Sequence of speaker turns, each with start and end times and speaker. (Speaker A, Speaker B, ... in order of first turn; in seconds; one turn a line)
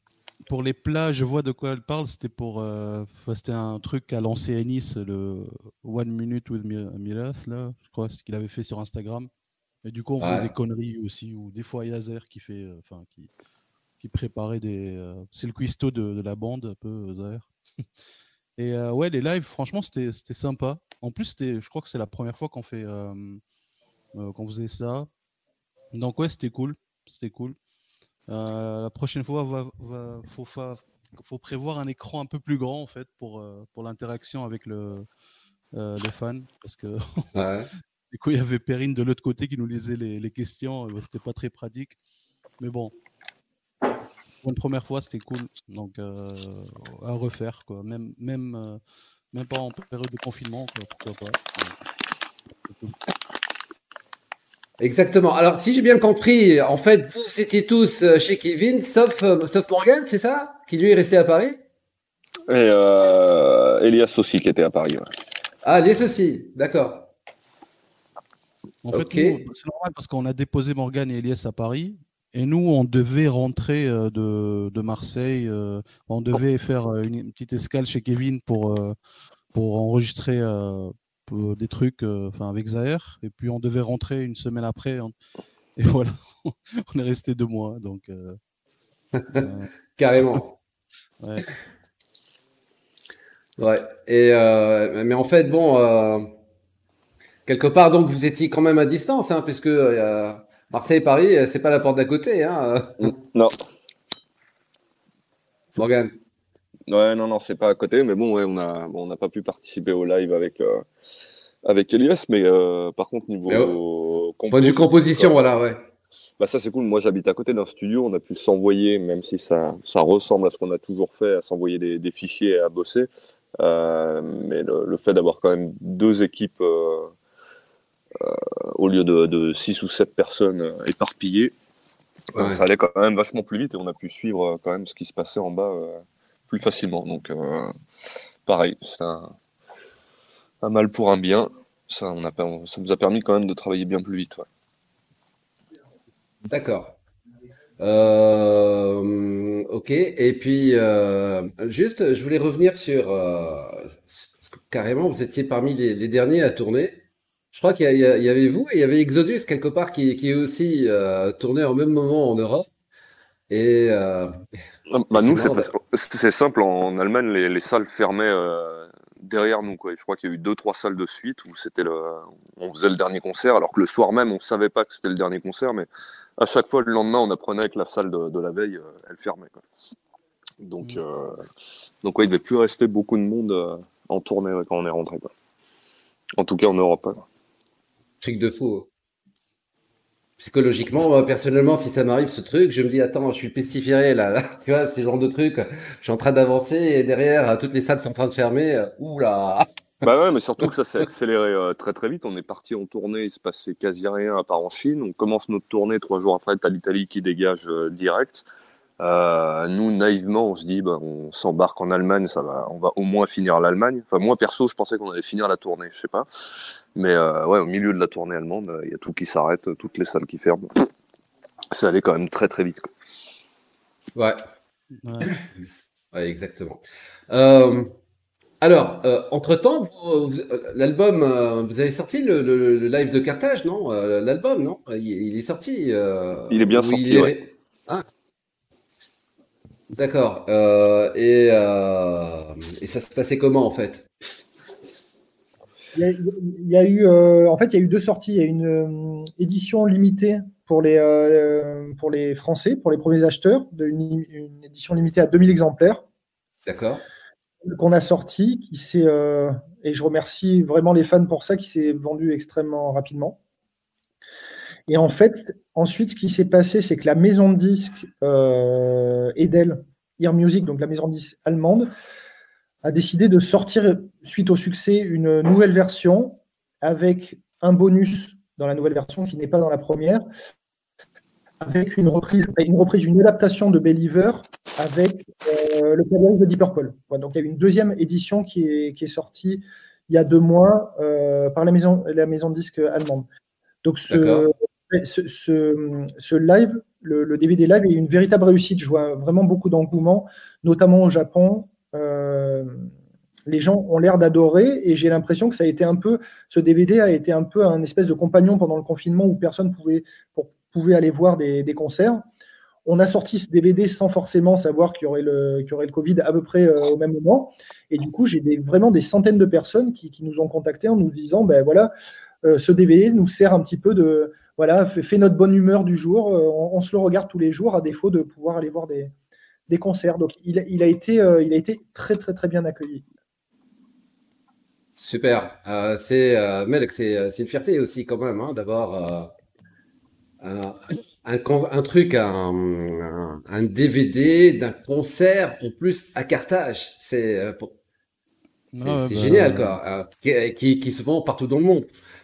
Speaker A: 0.5-9.3
Speaker A: 9.8-13.3
Speaker B: 10.2-10.5
Speaker A: 14.0-17.5
Speaker A: 18.6-23.4
Speaker A: 24.1-25.1
Speaker A: 25.9-27.6
Speaker A: 28.3-35.0
Speaker A: 35.7-37.3
Speaker B: 37.3-37.7
Speaker A: 38.1-42.0
Speaker A: 42.6-42.9
Speaker A: 44.4-48.8
Speaker A: 49.3-51.8
Speaker A: 52.6-52.9
Speaker B: 54.8-61.6
Speaker C: 62.5-65.1
Speaker B: 65.6-67.1
Speaker A: 68.8-78.9
Speaker B: 68.9-69.4
Speaker A: 79.5-85.1
Speaker A: 85.8-88.4
Speaker B: 89.2-90.5
Speaker A: 89.3-89.7
Speaker A: 91.2-91.5
Speaker B: 93.6-96.3
Speaker B: 97.5-103.1
Speaker C: 103.0-103.5
Speaker B: 105.8-106.1
Speaker C: 106.9-110.9
Speaker C: 111.6-115.3
Speaker B: 113.5-113.7
Speaker B: 114.5-115.8
Speaker C: 116.4-123.1
Speaker C: 123.6-127.1
Speaker C: 128.2-131.5
Speaker C: 132.3-137.7
Speaker B: 132.3-132.6
Speaker C: 138.4-139.3
Speaker C: 140.6-144.4
Speaker B: 146.5-147.0
Speaker B: 147.8-157.0
Speaker B: 157.5-162.7
Speaker B: 163.5-164.4
Speaker C: 164.9-179.6
Speaker B: 165.1-165.7
Speaker C: 180.6-181.4
Speaker C: 182.0-185.3
Speaker C: 186.4-187.2
Speaker B: 188.2-188.9
Speaker B: 190.4-199.7
Speaker C: 200.0-208.4
Speaker C: 209.0-216.3
Speaker C: 216.9-220.7
Speaker C: 221.7-222.9
Speaker A: 225.0-225.3
Speaker B: 225.3-227.9
Speaker B: 228.6-238.0
Speaker C: 236.5-237.4
Speaker B: 239.9-244.1
Speaker D: 245.9-256.0
Speaker B: 256.6-257.0
Speaker D: 257.6-263.4
Speaker D: 264.9-271.9
Speaker D: 272.8-280.2
Speaker D: 281.6-293.3
Speaker D: 293.8-302.9
Speaker B: 294.1-294.4
Speaker D: 303.4-312.2
Speaker D: 312.8-321.9
Speaker D: 322.4-329.1
Speaker D: 329.7-333.0
Speaker B: 335.0-339.3
Speaker B: 340.4-347.7
Speaker A: 348.7-349.8
Speaker B: 348.8-351.9